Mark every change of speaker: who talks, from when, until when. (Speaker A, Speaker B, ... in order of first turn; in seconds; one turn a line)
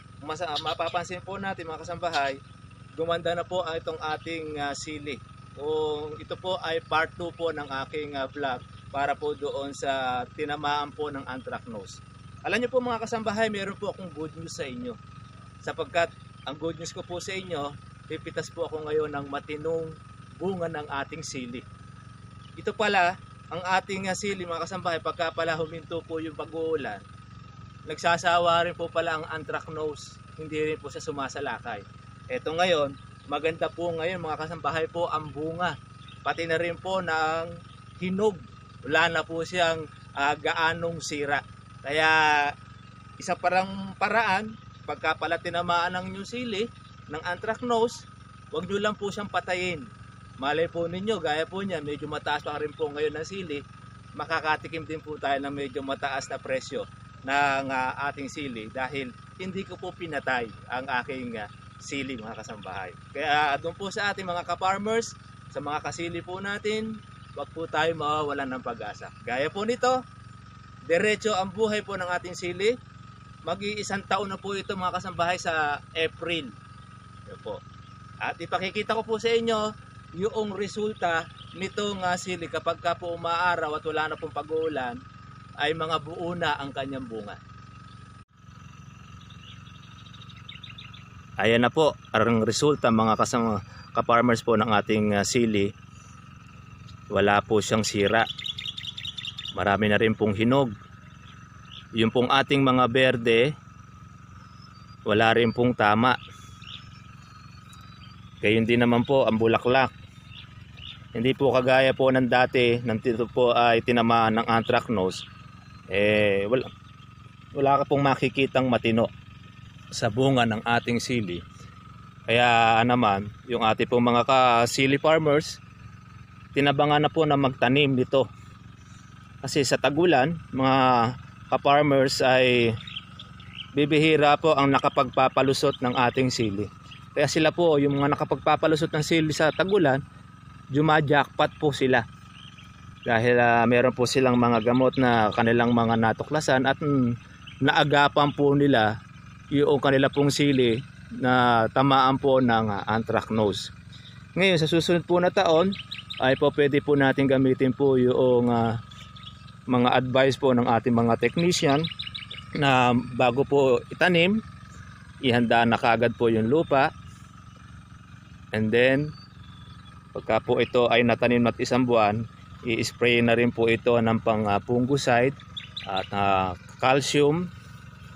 Speaker A: 0.2-2.4
Speaker A: 3.0-15.0
Speaker A: 15.6-21.7
Speaker A: 22.6-27.0
Speaker A: 27.9-42.5
Speaker A: 43.2-49.9
Speaker A: 50.4-53.6
Speaker A: 54.2-70.0
Speaker A: 70.9-72.8
Speaker A: 73.5-76.5
Speaker A: 77.3-77.6
Speaker A: 78.2-85.0
Speaker A: 85.6-87.4
Speaker A: 91.4-95.7
Speaker A: 97.1-98.3
Speaker A: 99.5-100.7
Speaker A: 102.0-103.5
Speaker A: 105.1-106.2
Speaker A: 108.4-109.9
Speaker A: 111.2-115.2
Speaker A: 115.9-116.7
Speaker A: 117.5-119.1
Speaker A: 120.0-121.4
Speaker A: 122.3-125.6
Speaker A: 126.5-128.3
Speaker A: 129.4-132.7
Speaker A: 133.7-140.0
Speaker A: 140.7-142.0
Speaker A: 143.1-147.1
Speaker A: 147.6-148.9
Speaker A: 149.5-153.7
Speaker A: 154.4-158.8
Speaker A: 159.7-161.9
Speaker A: 162.6-164.4
Speaker A: 165.2-166.9
Speaker A: 168.5-169.1
Speaker A: 170.1-175.3
Speaker A: 175.9-177.5